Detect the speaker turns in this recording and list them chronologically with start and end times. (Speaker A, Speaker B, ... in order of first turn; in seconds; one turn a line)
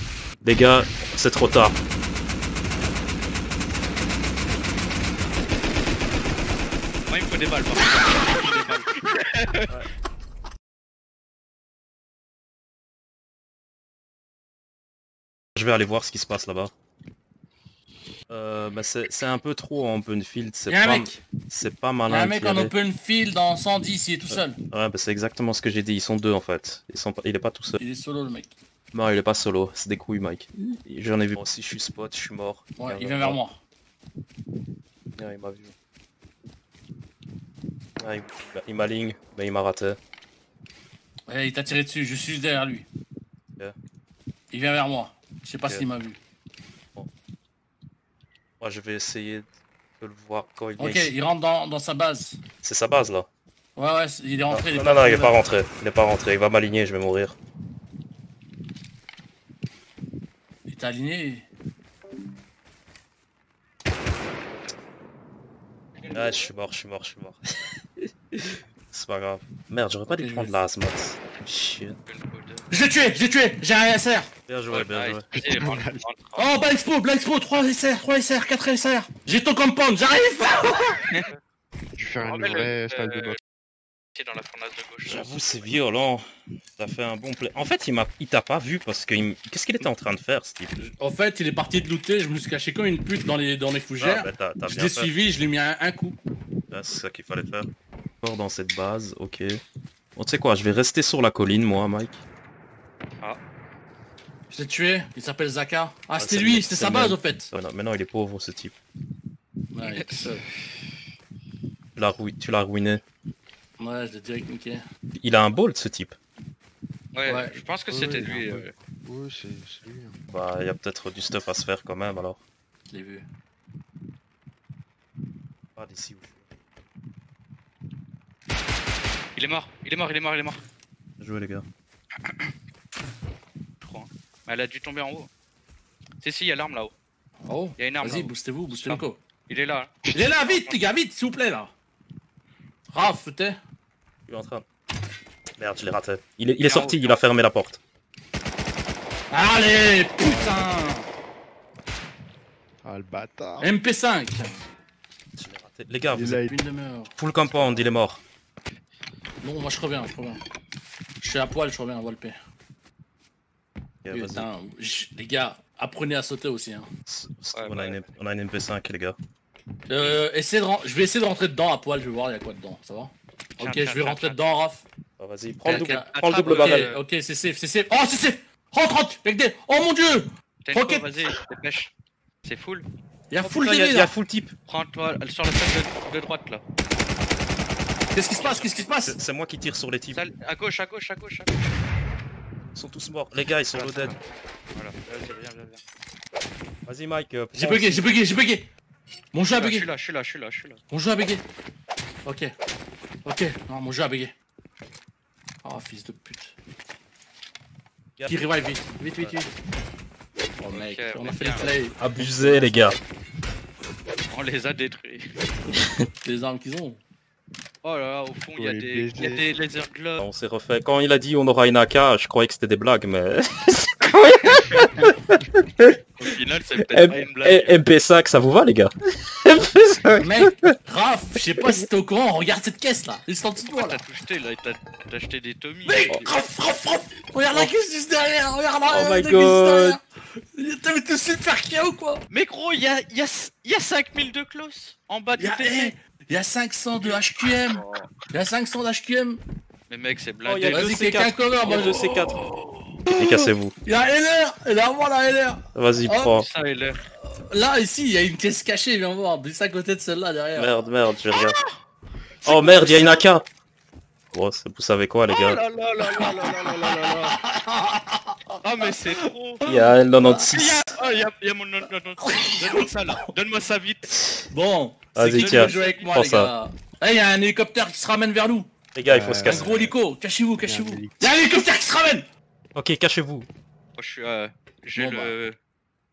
Speaker A: 0.4-1.8
Speaker B: 7.1-9.7
Speaker A: 15.6-16.7
Speaker A: 18.3-22.7
Speaker C: 20.7-21.2
Speaker C: 22.1-24.6
Speaker A: 24.3-27.8
Speaker C: 27.8-28.6
Speaker A: 28.9-33.4
Speaker C: 32.8-33.6
Speaker A: 35.2-35.7
Speaker A: 38.0-40.0
Speaker C: 41.3-42.9
Speaker C: 44.5-46.2
Speaker A: 48.6-51.1
Speaker C: 50.8-52.4
Speaker A: 52.6-53.3
Speaker C: 53.8-55.4
Speaker A: 54.5-57.4
Speaker C: 60.7-61.5
Speaker A: 66.1-67.4
Speaker A: 68.0-72.0
Speaker C: 70.2-70.5
Speaker B: 72.1-72.7
Speaker C: 72.7-74.3
Speaker A: 74.5-75.2
Speaker B: 74.7-76.6
Speaker D: 75.3-76.0
Speaker C: 76.3-81.2
Speaker B: 81.1-81.4
Speaker D: 82.0-83.4
Speaker B: 82.2-83.4
Speaker B: 84.2-85.5
Speaker A: 85.0-86.2
Speaker A: 86.8-90.8
Speaker C: 90.8-96.2
Speaker A: 94.0-95.1
Speaker A: 96.7-97.7
Speaker A: 98.2-99.6
Speaker A: 100.2-102.2
Speaker C: 104.5-107.5
Speaker A: 106.2-108.7
Speaker C: 109.7-110.4
Speaker B: 109.8-110.5
Speaker A: 112.0-113.0
Speaker C: 113.8-114.8
Speaker A: 115.2-116.2
Speaker B: 117.1-118.7
Speaker C: 117.2-117.6
Speaker D: 117.9-120.2
Speaker A: 120.3-122.4
Speaker C: 122.9-123.2
Speaker A: 125.8-126.4
Speaker B: 129.4-130.6
Speaker A: 131.2-131.7
Speaker B: 133.8-135.3
Speaker B: 136.2-136.9
Speaker C: 137.4-139.2
Speaker B: 137.8-140.8
Speaker D: 140.1-140.3
Speaker C: 140.1-141.7
Speaker C: 142.9-143.6
Speaker A: 144.3-144.7
Speaker A: 145.6-147.8
Speaker B: 146.6-147.2
Speaker C: 149.3-151.1
Speaker D: 150.2-150.8
Speaker D: 152.8-153.7
Speaker C: 153.6-154.6
Speaker A: 155.4-156.4
Speaker D: 156.1-156.6
Speaker C: 156.3-157.7
Speaker A: 157.2-158.2
Speaker C: 159.4-160.4
Speaker C: 161.2-162.4
Speaker A: 164.0-164.5
Speaker C: 164.1-166.9
Speaker A: 167.1-169.2
Speaker B: 167.6-168.1
Speaker C: 169.9-174.9
Speaker B: 173.6-174.4
Speaker A: 175.2-176.9
Speaker C: 175.6-181.1
Speaker B: 175.7-177.0
Speaker B: 180.7-181.9
Speaker B: 182.4-182.9
Speaker C: 183.3-184.1
Speaker A: 183.4-184.5
Speaker B: 184.7-186.6
Speaker C: 188.1-189.2
Speaker B: 188.4-188.9
Speaker A: 189.0-190.2
Speaker B: 190.1-191.6
Speaker A: 192.7-194.2
Speaker B: 193.7-194.2
Speaker B: 194.7-195.8
Speaker A: 196.9-198.0
Speaker C: 197.5-198.7
Speaker C: 199.3-199.9
Speaker B: 199.5-200.8
Speaker C: 200.9-201.4
Speaker C: 202.2-202.5
Speaker C: 203.2-204.4
Speaker C: 205.6-206.6
Speaker A: 208.2-209.4
Speaker C: 208.3-209.5
Speaker C: 210.6-213.0
Speaker B: 210.7-211.7
Speaker A: 212.0-213.0
Speaker B: 214.3-215.3
Speaker C: 216.2-217.0
Speaker B: 217.8-220.2
Speaker D: 218.6-219.5
Speaker A: 220.2-226.2
Speaker B: 226.2-227.7
Speaker A: 226.9-228.9
Speaker A: 229.4-230.8
Speaker C: 230.2-234.0
Speaker B: 233.6-236.5
Speaker C: 235.8-242.2
Speaker A: 238.9-240.0
Speaker B: 242.3-245.9
Speaker C: 245.4-249.4
Speaker B: 247.0-248.1
Speaker B: 249.9-250.9
Speaker A: 250.4-252.4
Speaker C: 250.7-256.4
Speaker A: 253.1-253.8
Speaker A: 255.7-256.5
Speaker B: 256.3-257.0
Speaker C: 257.1-260.8
Speaker A: 260.6-261.6
Speaker A: 262.4-263.5
Speaker A: 264.3-265.6
Speaker B: 265.3-267.4
Speaker C: 266.0-268.6
Speaker B: 268.6-269.6
Speaker C: 269.6-270.5
Speaker A: 269.6-270.9
Speaker B: 270.5-274.1
Speaker C: 272.2-273.3
Speaker A: 274.1-274.5
Speaker C: 274.5-278.7
Speaker A: 275.1-276.5
Speaker B: 275.3-276.1
Speaker A: 278.9-279.9
Speaker D: 279.1-279.8
Speaker C: 279.4-282.3
Speaker D: 280.6-281.4
Speaker A: 282.7-283.5
Speaker B: 283.9-285.6
Speaker C: 284.9-285.4